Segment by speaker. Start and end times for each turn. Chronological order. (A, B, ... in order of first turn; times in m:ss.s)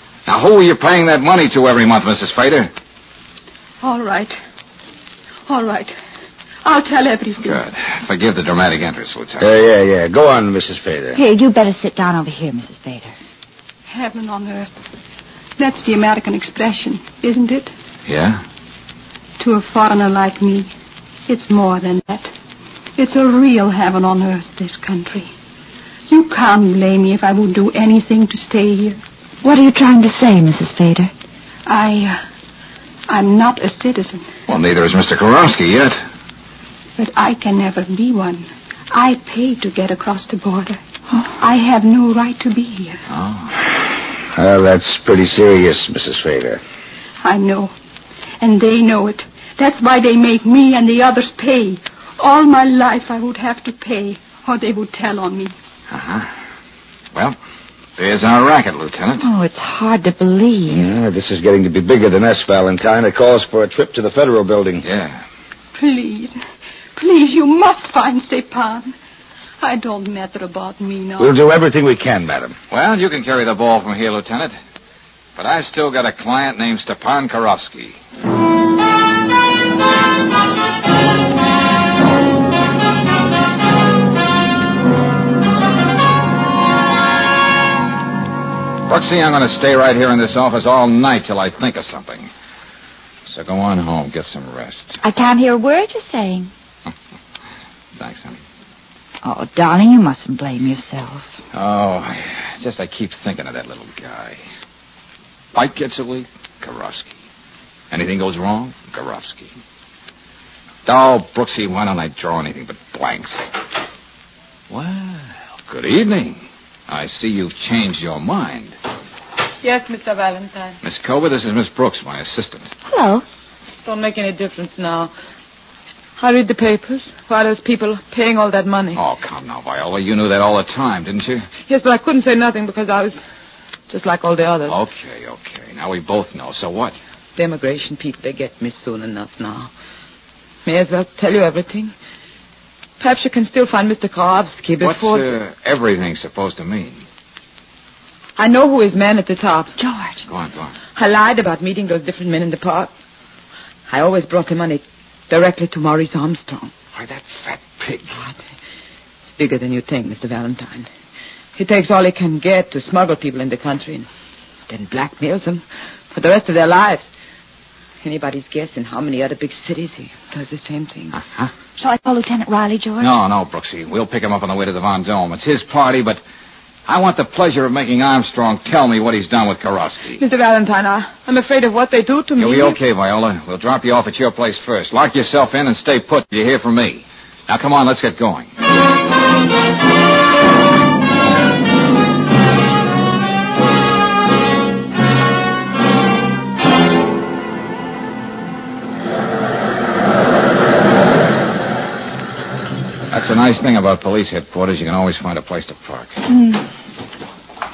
0:00.2-0:02.7 A
0:03.8-0:04.4 B
0:05.5-0:05.9 B
0:06.6-0:07.6 B
0:07.4-0:09.4 A
0:09.4-0:11.2 C
0:11.1-0:13.1 D
0:13.9-0:14.7 B
0:15.6-0:17.7 B
0:18.0-0:18.4 A
0:19.4-0:20.7 B
0:21.3-0:22.3 B
0:23.0-0:25.3 B
0:26.1-0:29.0 B
0:29.4-0:31.1 D
0:31.7-0:32.2 B
0:33.1-0:34.3 B
0:34.5-0:36.0 A
0:37.0-0:43.0 B
0:43.1-0:43.5 A
0:44.3-0:46.6 C
0:47.2-0:47.7 B
0:48.4-0:55.5 B
0:55.9-0:56.3 A
0:58.0-0:59.3 A
0:59.2-1:00.9 D
1:00.7-1:04.9 C
1:04.8-1:05.2 A
1:05.7-1:06.4 B
1:06.9-1:09.0 B
1:09.6-1:11.4 B
1:11.2-1:12.6 C
1:12.7-1:14.6 A
1:15.4-1:18.0 A
1:28.9-1:32.3 A
1:33.2-1:35.0 A
1:35.0-1:36.5 D
1:38.0-1:38.4 A
1:39.2-1:41.4 D
1:41.5-1:44.4 A
1:45.5-1:47.2 A
1:47.9-1:49.6 A
1:50.8-1:53.4 A
1:54.7-1:58.8 A
1:59.6-2:00.8 E
2:00.8-2:02.7 A
2:02.8-2:03.2 D
2:03.8-2:05.1 E
2:06.2-2:09.0 E
2:08.9-2:11.5 A
2:11.7-2:13.2 E
2:13.9-2:14.8 E
2:14.7-2:17.0 A
2:17.4-2:19.7 E
2:20.6-2:21.9 E
2:23.0-2:25.3 E
2:24.8-2:27.0 A
2:28.4-2:29.7 E
2:29.8-2:30.2 D
2:30.3-2:30.7 A
2:31.0-2:32.9 E
2:33.9-2:36.8 E
2:36.9-2:38.1 A
2:39.4-2:40.9 E
2:41.6-2:44.1 E
2:44.7-2:47.1 E
2:48.0-2:51.2 E
2:51.8-2:53.1 D
2:53.0-2:56.2 A
2:56.9-3:00.2 A
3:00.2-3:02.8 E
3:02.4-3:08.5 A
3:23.1-3:26.2 A
3:26.3-3:26.6 D